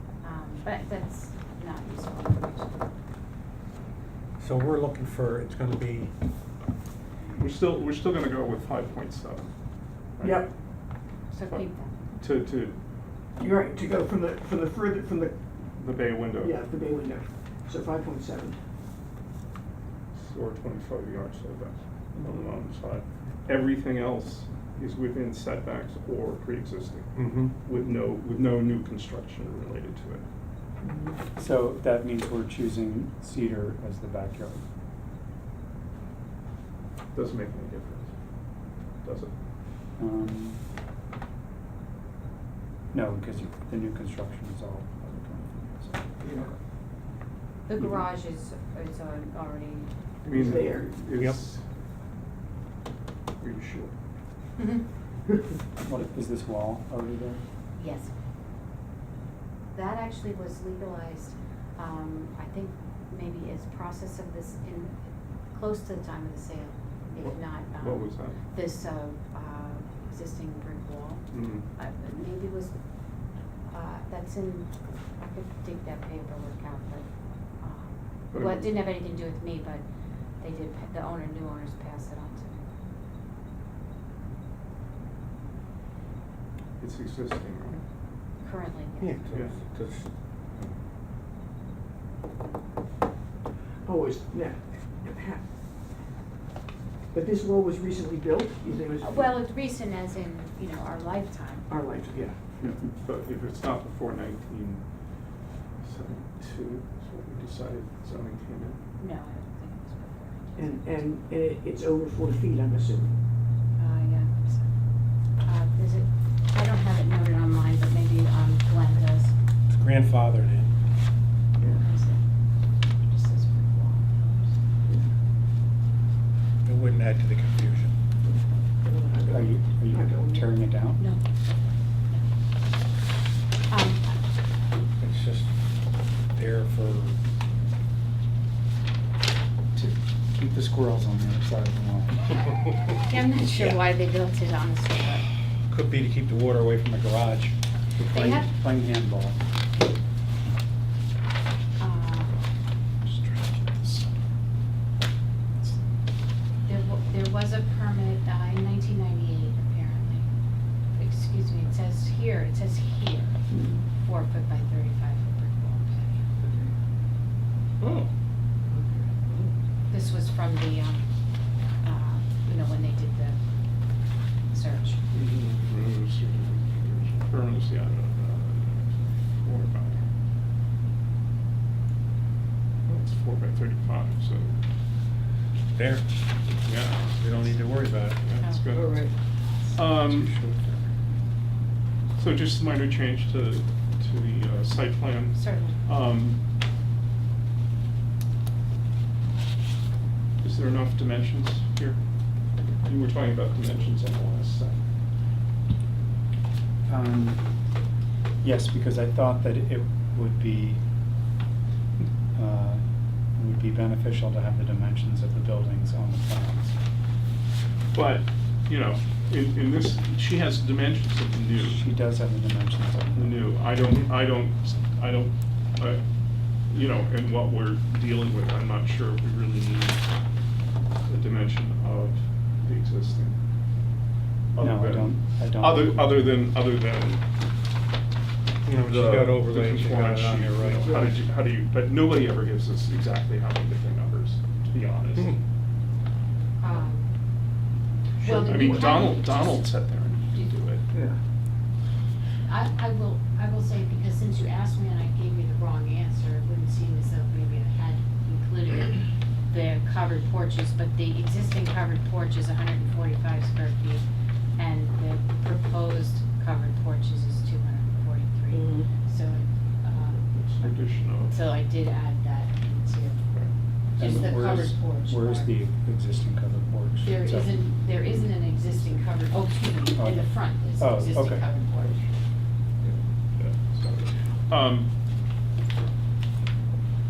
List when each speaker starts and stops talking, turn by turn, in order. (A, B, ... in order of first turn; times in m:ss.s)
0:00.2-0:02.8 A
0:04.4-0:06.1 B
0:07.3-0:09.5 C
0:10.2-0:10.4 C
0:10.2-0:10.5 D
0:11.3-0:11.9 A
0:11.4-0:12.8 C
0:13.4-0:15.4 D
0:15.7-0:16.6 C
0:16.4-0:18.6 D
0:20.1-0:30.2 C
0:27.2-0:27.5 B
0:30.8-0:31.2 D
0:31.4-0:34.6 E
0:37.1-0:38.1 C
0:39.0-0:39.3 C
0:40.0-0:40.6 E
0:42.9-0:46.5 E
0:46.2-0:46.5 D
0:47.7-0:49.9 A
0:50.2-0:51.6 C
0:50.3-0:50.9 D
0:51.1-0:51.4 B
0:53.4-0:53.9 C
0:54.6-0:54.8 A
0:55.8-0:57.4 E
0:57.8-0:58.1 A
0:59.7-1:05.0 A
1:05.5-1:12.7 A
1:07.2-1:08.4 C
1:11.3-1:11.6 C
1:13.7-1:17.1 A
1:17.6-1:19.8 A
1:18.3-1:18.7 C
1:20.4-1:22.6 A
1:26.8-1:27.8 C
1:28.4-1:29.2 A
1:29.0-1:30.1 B
1:29.3-1:29.6 C
1:30.5-1:30.8 C
1:33.8-1:35.4 D
1:37.1-1:39.4 D
1:39.0-1:41.7 A
1:41.7-1:42.5 D
1:42.6-1:44.8 C
1:45.8-1:48.8 C
1:49.0-1:51.1 A
1:50.6-1:53.2 D
1:53.8-1:54.7 A
1:55.4-1:59.3 A
1:59.7-2:00.7 B
2:01.6-2:01.8 D
2:01.7-2:02.2 A
2:03.0-2:04.6 A
2:06.6-2:07.9 B
2:08.2-2:10.5 D
2:09.3-2:11.0 E
2:11.0-2:11.2 A
2:13.7-2:14.2 A
2:15.0-2:15.5 B
2:16.3-2:17.1 B
2:19.7-2:22.6 E
2:23.1-2:25.2 A
2:25.7-2:27.5 B
2:28.0-2:29.4 E
2:28.1-2:28.5 A
2:31.8-2:32.4 A
2:33.0-2:34.2 C
2:36.6-2:40.3 A
2:41.0-2:43.4 A
2:43.5-2:43.8 D
2:44.0-2:46.2 A
2:46.4-2:46.7 D
2:47.8-2:48.1 C
2:48.7-2:49.5 D
2:49.9-2:51.0 A
2:51.8-2:53.4 A
2:54.5-2:55.0 A
2:55.1-3:00.1 C
3:02.9-3:04.6 C
3:05.7-3:06.0 B
3:06.6-3:07.3 C
3:07.2-3:08.2 B
3:08.2-3:09.1 C
3:08.7-3:09.1 D
3:09.7-3:10.3 C
3:10.0-3:10.8 B
3:12.2-3:16.4 C
3:15.3-3:15.8 A
3:20.4-3:22.0 C
3:22.8-3:24.8 C
3:26.8-3:27.4 E
3:28.4-3:30.8 E
3:32.3-3:32.8 E
3:33.4-3:36.8 E
3:37.9-3:41.8 C
3:41.6-3:43.4 E
3:43.1-3:46.0 C
3:46.7-3:50.0 C
3:51.1-3:53.4 C
3:54.5-3:57.2 C
3:54.6-3:56.4 E
3:58.6-4:01.1 B
3:58.7-4:05.4 C
4:06.6-4:07.0 A
4:08.2-4:09.0 D
4:08.2-4:09.6 A
4:08.4-4:10.8 C
4:12.4-4:24.0 A
4:24.6-4:30.2 A
4:28.5-4:28.9 D
4:30.0-4:31.4 C
4:31.3-4:33.2 A
4:34.0-4:35.5 A
4:34.0-4:37.6 E
4:37.0-4:42.0 A
4:40.0-4:41.5 E
4:42.8-4:44.9 C